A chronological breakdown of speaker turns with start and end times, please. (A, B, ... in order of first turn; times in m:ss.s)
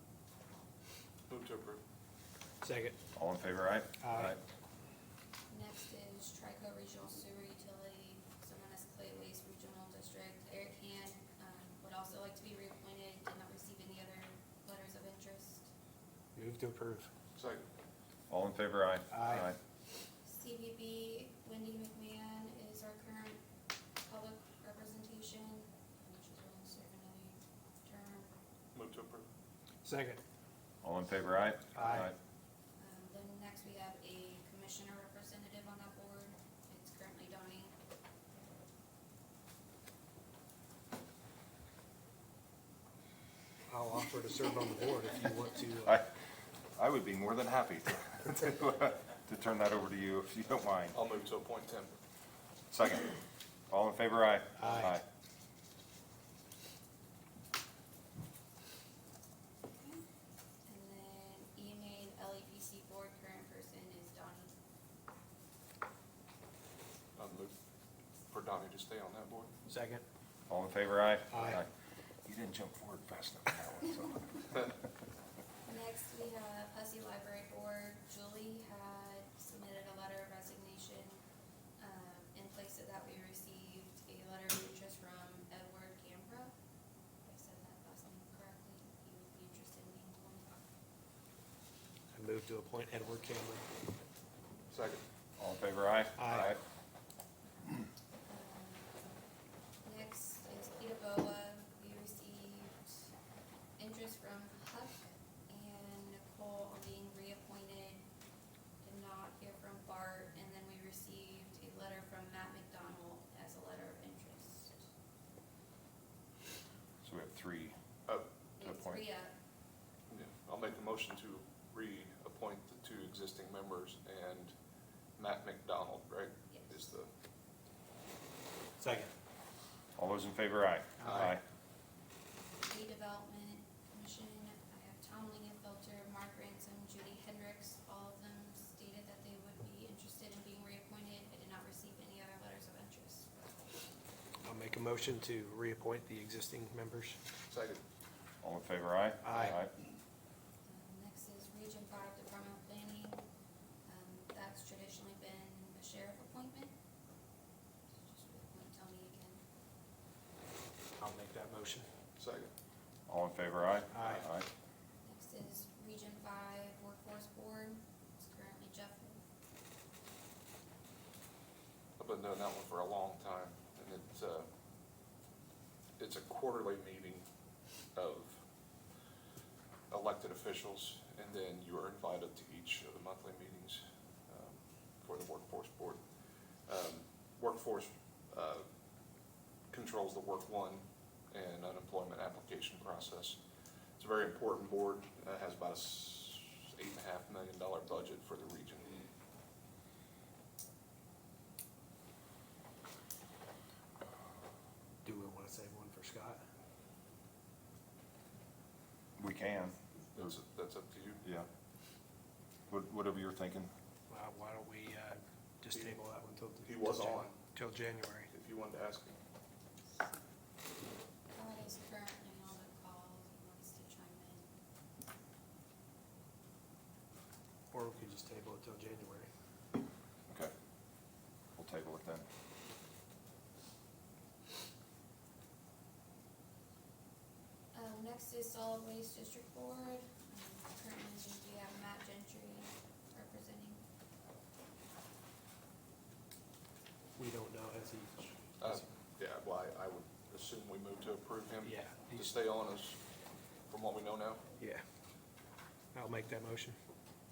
0:01.3-0:01.8 A
0:02.6-0:03.0 B
0:03.1-0:04.4 C
0:04.0-0:04.3 B
0:05.5-0:15.7 D
0:16.4-0:17.1 B
0:17.3-0:17.6 A
0:18.3-0:19.6 C
0:19.1-0:19.5 B
0:20.2-0:23.4 D
0:24.0-0:28.3 D
0:28.7-0:29.2 A
0:29.8-0:30.2 B
0:30.8-0:32.1 C
0:31.7-0:32.1 B
0:32.8-0:37.7 D
0:43.7-0:45.9 B
0:45.8-0:46.1 C
0:46.7-0:51.0 C
0:50.9-0:51.9 A
0:52.7-0:53.2 C
0:53.7-0:55.0 C
0:54.6-0:54.9 B
0:59.7-1:00.0 D
1:00.6-1:04.5 D
1:07.2-1:07.5 A
1:08.3-1:09.5 A
1:09.6-1:10.0 B
1:10.5-1:11.7 C
1:11.3-1:11.6 B
1:12.2-1:14.7 C
1:15.6-1:21.2 D
1:21.8-1:26.5 D
1:27.2-1:30.6 D
1:32.1-1:33.6 B
1:34.7-1:35.0 A
1:35.4-1:36.6 C
1:36.2-1:36.5 B
1:38.2-1:39.1 D
1:39.8-1:43.1 D
1:43.8-1:48.0 D
1:48.8-1:54.8 D
1:57.0-1:57.7 C
1:58.6-1:59.3 D
1:58.6-1:59.0 C
2:00.1-2:04.5 A
2:05.2-2:07.1 A
2:06.5-2:06.8 D
2:08.8-2:09.1 B
2:10.0-2:11.4 C
2:12.4-2:23.5 D
2:24.4-2:27.2 B
2:27.5-2:27.8 A
2:28.4-2:29.7 C
2:29.2-2:29.6 B
2:30.7-2:33.2 D
2:33.8-2:36.7 D
2:38.0-2:39.4 D
2:41.0-2:41.9 B
2:42.2-2:42.5 A
2:43.1-2:44.5 C
2:43.9-2:44.2 B
2:45.0-2:49.2 D
2:52.0-2:54.5 A
2:56.0-2:57.2 A
2:57.9-2:58.4 A
2:59.9-3:08.7 A
3:09.7-3:13.4 A
3:14.0-3:19.1 A
3:25.0-3:26.4 B
3:29.2-3:30.3 C
3:30.1-3:31.2 A
3:31.2-3:31.5 C
3:32.7-3:33.7 C
3:34.1-3:38.3 B
3:36.6-3:37.4 A
3:38.3-3:39.2 A
3:41.3-3:44.5 D
3:47.7-3:49.3 B
3:51.6-3:52.2 C
3:57.7-4:03.8 D
4:07.2-4:08.8 B
4:08.6-4:13.0 A
4:11.6-4:12.3 B
4:13.7-4:14.4 A
4:14.6-4:14.8 B
4:15.9-4:16.8 B